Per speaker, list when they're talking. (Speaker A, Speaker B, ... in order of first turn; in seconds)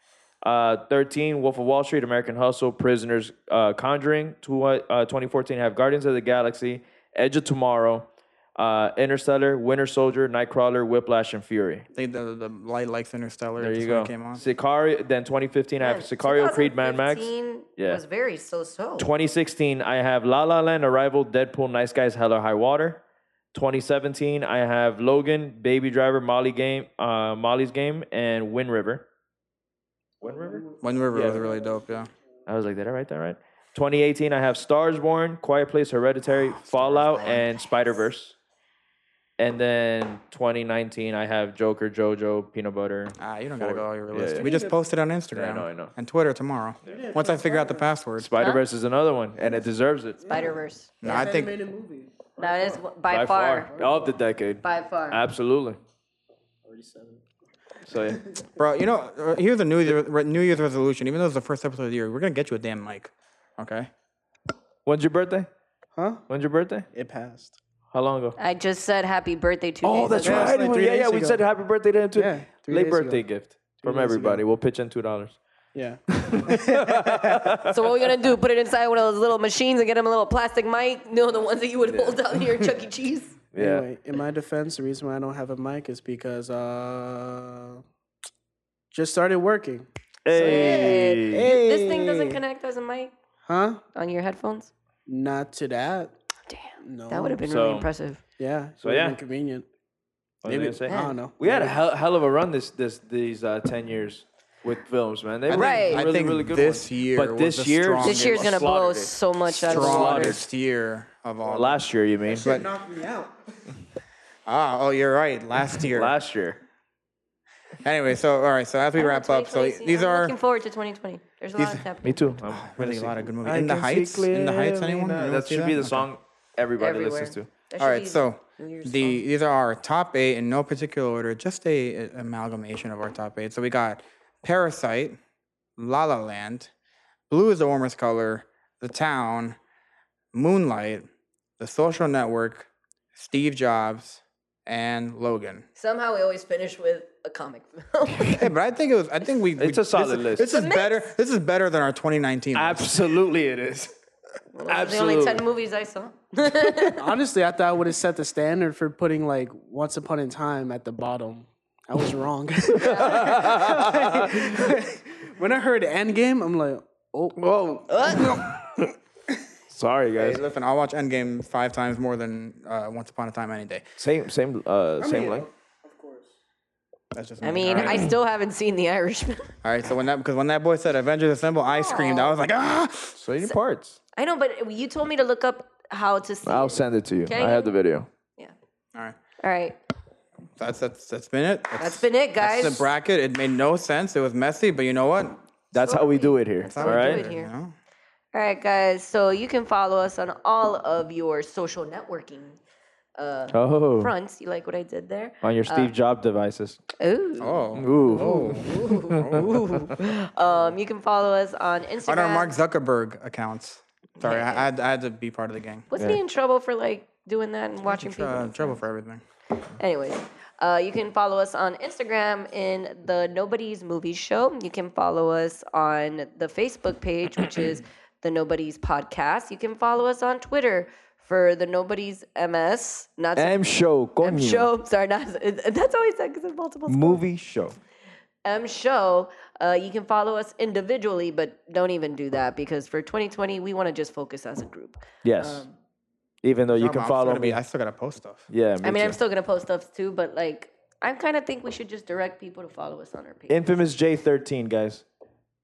Speaker A: 0.4-11.8, 13.6-18.0, 19.0-23.0, 23.5-29.1, 30.2-31.4, 32.5-38.4, 39.4-44.5, 45.3-45.9, 48.2-50.3, 53.1-55.8, 57.9-58.2, 64.9-65.5, 66.3-66.9, 67.9-68.4, 69.8-75.4, 76.1-77.8, 81.9-82.2, 83.5-83.8, 90.2-91.5, 97.4-97.9, 98.8-99.2, 100.4-110.5, 111.4-112.5, 115.9-116.6, 122.0-127.5, 149.6-150.5, 152.6-153.9, 154.7-155.4, 162.8-164.8, 167.4-168.9, 169.7-170.4, 174.0-175.5, 177.7-178.0, 183.2-184.0, 186.5-188.1, 195.7-197.2, 203.5-204.1, 205.4-206.8, 207.8-209.5, 233.4-234.7, 236.9-237.8, 245.2-245.7, 246.4-247.6, 248.5-249.2, 253.5-255.0
Speaker B: 11.9-14.4, 30.8-32.1, 36.3-37.5, 43.2-48.3, 51.0-51.5, 58.6-63.9, 105.5-108.6, 109.5-111.8, 112.4-112.7, 114.5-116.1, 117.8-120.3, 121.6-121.9, 122.5-126.1, 127.8-135.2, 135.8-136.7, 137.3-139.6, 140.3-141.1, 141.6-145.7, 148.3-153.0, 170.2-173.8, 177.1-178.1, 179.6-183.2, 190.6-195.4, 196.7-197.8, 207.4-209.6, 212.1-215.9, 217.9-219.2, 246.7-248.5
Speaker C: 15.8-19.1, 50.3-51.3, 52.4-53.7, 54.6-55.2, 68.4-70.6, 77.7-83.4, 90.3-93.1, 94.0-94.7, 96.5-98.2, 100.9-101.2, 105.5-106.0, 108.0-110.4, 119.0-122.3, 126.8-129.2, 145.8-148.5, 150.4-151.1, 154.5-157.1, 162.8-163.4, 177.4-179.5, 181.7-182.3, 184.2-187.8, 189.4-189.8, 191.8-192.9, 195.7-197.5, 198.3-202.6, 203.2-205.9, 207.0-212.5, 214.2-214.7, 215.9-218.8, 219.8-233.6, 234.2-237.2, 238.4-245.8, 248.8-253.6
Speaker D: 30.2-30.8, 44.4-44.8, 46.9-47.9, 49.4-49.7, 50.2-52.8, 53.7-54.1, 56.6-57.2, 58.0-58.4, 66.0-66.2, 66.9-67.6, 70.2-71.4, 72.2-73.2, 73.8-74.4, 75.7-77.6, 83.6-87.8, 88.9-92.4, 93.5-93.8, 95.1-96.1, 96.8-97.4, 98.4-99.7, 100.5-101.8, 112.3-113.5, 157.0-168.6, 175.0-176.3